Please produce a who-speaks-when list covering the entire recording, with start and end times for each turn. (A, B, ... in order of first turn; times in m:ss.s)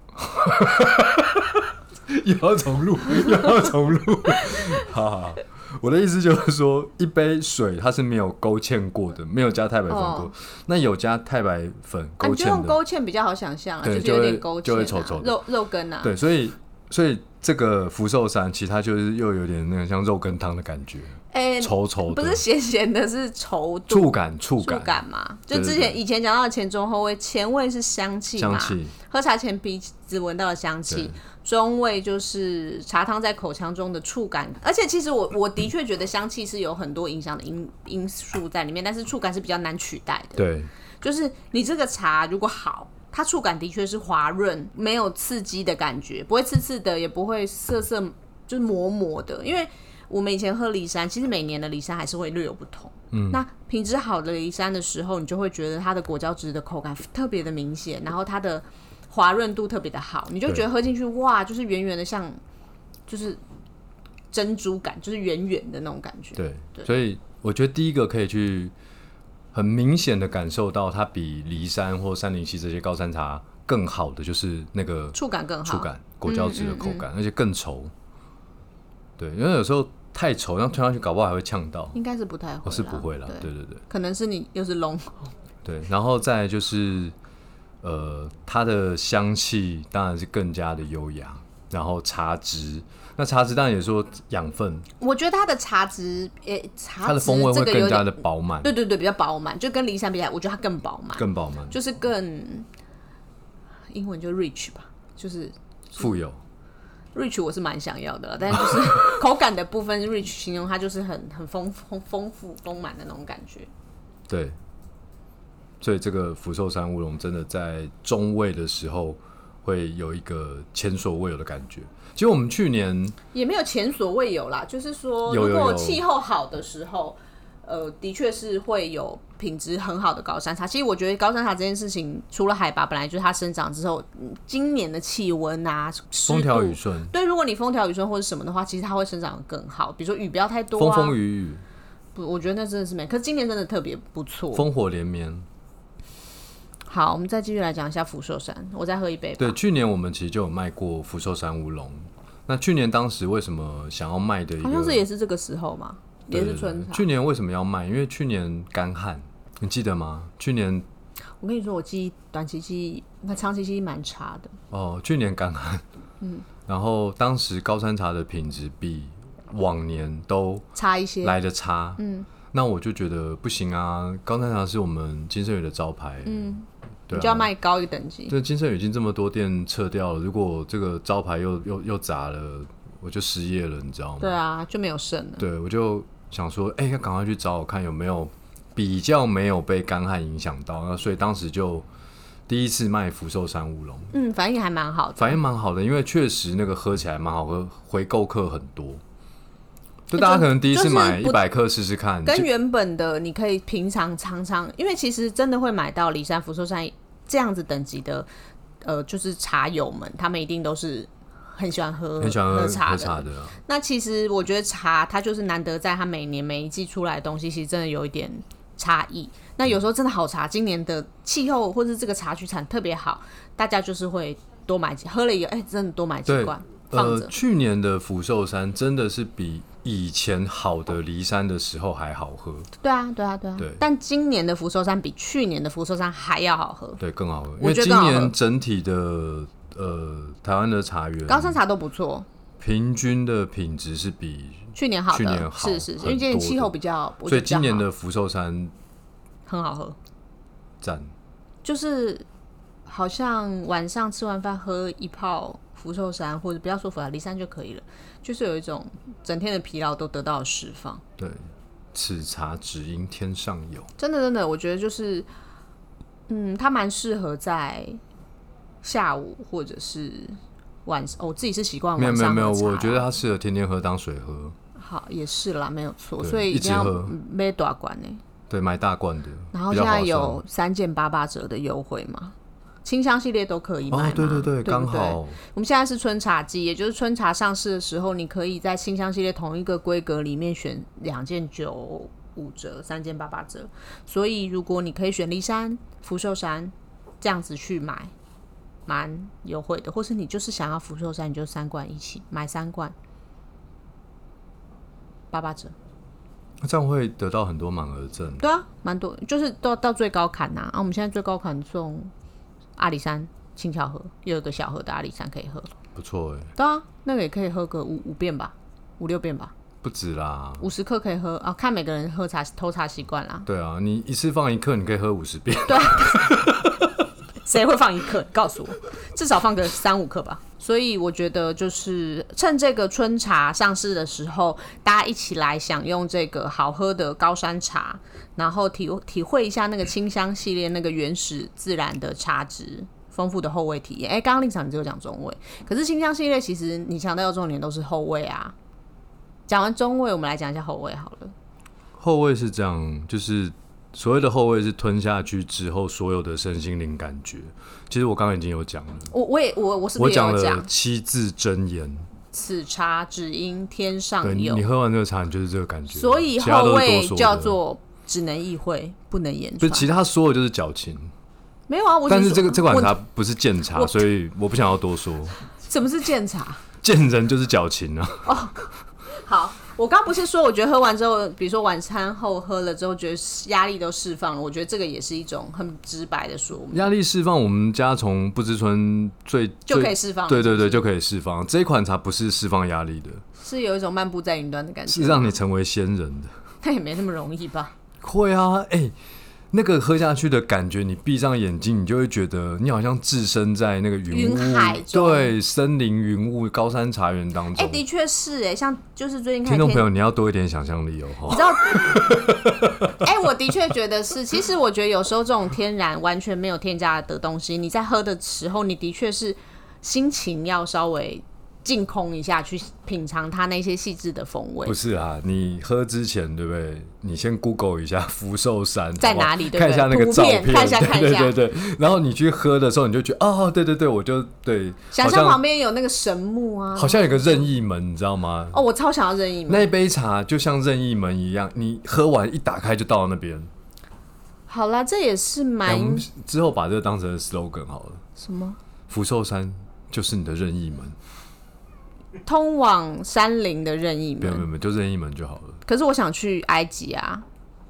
0:00.2-0:12.8 A
0:09.9-0:10.3 B
0:12.2-0:16.1 B
0:13.8-0:15.4 A
0:16.0-0:22.4 A
0:21.3-0:40.4 B
0:23.9-0:25.0 A
0:25.5-0:26.0 A
0:28.4-0:28.9 A
0:30.9-0:31.1 A
0:40.4-0:40.7 A
0:41.0-1:02.4 B
0:53.1-0:53.4 A
1:03.1-1:03.4 B
1:04.3-1:06.9 B
1:06.4-1:08.7 A
1:09.5-1:17.9 A
1:15.1-1:17.0 B
1:19.2-1:22.0 A
1:21.9-1:25.3 B
1:22.6-1:23.8 A
1:25.6-1:27.1 A
1:27.8-1:34.9 A
1:35.0-1:42.7 B
1:37.0-1:38.7 A
1:41.1-1:41.8 A
1:43.9-1:46.1 B
1:46.0-1:46.4 A
1:47.1-1:53.7 B
1:48.5-1:49.2 A
1:54.3-1:54.6 A
1:55.8-2:03.2 A
2:03.3-2:21.2 B
2:05.2-2:06.0 A
2:16.3-2:17.1 A
2:20.8-2:21.6 A
2:22.1-2:24.7 B
2:24.5-2:25.4 A
2:26.8-2:29.6 B
2:29.4-2:35.0 A
2:34.6-2:37.1 B
2:36.3-2:40.8 A
2:41.4-2:44.6 B
2:44.7-2:45.8 A
2:46.7-2:50.6 A
2:50.7-2:51.4 B
2:51.2-2:52.0 A
2:52.0-2:52.3 B
2:52.5-2:56.5 A
2:56.2-2:58.3 B
2:57.1-2:57.5 A
2:58.3-3:04.4 A
3:04.2-3:05.4 B
3:05.4-3:11.9 A
3:12.5-3:14.1 A
3:14.1-3:15.4 B
3:15.2-3:19.0 A
3:20.1-3:22.5 A
3:20.2-3:21.4 B
3:22.2-3:28.3 B
3:28.8-3:47.3 B
3:32.2-3:33.6 A
3:46.3-3:52.7 A
3:52.8-3:57.0 B
3:57.0-4:01.6 A
3:57.6-3:58.3 B
4:01.3-4:02.2 B
4:02.6-4:06.7 A
4:04.7-4:07.9 B
4:07.2-4:08.7 A
4:09.5-4:10.0 B
4:10.8-4:11.1 A
4:11.6-4:12.2 B
4:12.9-4:21.0 B
4:21.2-4:21.4 A
4:21.9-4:23.9 A
4:24.0-4:25.3 B
4:26.3-4:28.0 B
4:28.8-4:33.0 B
4:32.0-4:34.6 A
4:34.8-4:38.2 B
4:36.2-4:37.1 A
4:38.5-4:40.4 A
4:39.5-4:58.1 B
4:43.9-4:45.4 A
4:58.9-5:02.9 B
5:05.3-5:05.7 B
5:06.6-5:08.4 A
5:08.4-5:12.1 B
5:12.8-5:15.7 B
5:16.0-5:16.5 A
5:16.6-5:19.5 B
5:19.8-5:20.7 A
5:20.6-5:23.5 B
5:23.4-5:27.0 A
5:25.6-5:26.4 B
5:27.4-5:48.5 B
5:49.5-5:51.3 B
5:52.0-5:59.1 A
5:59.1-6:00.7 B
6:00.0-6:02.1 A
6:02.3-6:04.6 B
6:04.2-6:07.6 A
6:05.9-6:09.9 B
6:09.6-6:11.1 A
6:11.7-6:13.0 B
6:12.1-6:15.4 A
6:13.7-6:14.0 B
6:15.6-6:16.6 B
6:16.8-6:18.3 A
6:18.2-6:18.6 B
6:19.1-6:26.9 B
6:26.7-6:33.2 A
6:29.7-6:30.8 B
6:33.4-6:35.4 B
6:34.9-6:36.3 A
6:36.6-6:37.7 B
6:38.0-6:38.9 A
6:39.5-6:47.8 A
6:44.1-6:45.3 B
6:47.5-6:49.9 B
6:49.4-6:53.0 A
6:51.3-6:52.0 B
6:53.0-7:04.7 B
7:04.6-7:15.4 A
7:09.0-7:11.4 B
7:14.9-7:17.5 B
7:16.7-7:18.6 A
7:18.5-7:19.7 B
7:19.5-7:23.5 A
7:24.5-7:26.0 B
7:25.6-7:28.0 A
7:28.2-7:28.6 B
7:28.9-7:31.0 A
7:32.2-7:34.4 B
7:34.2-7:35.6 A
7:35.6-7:37.2 B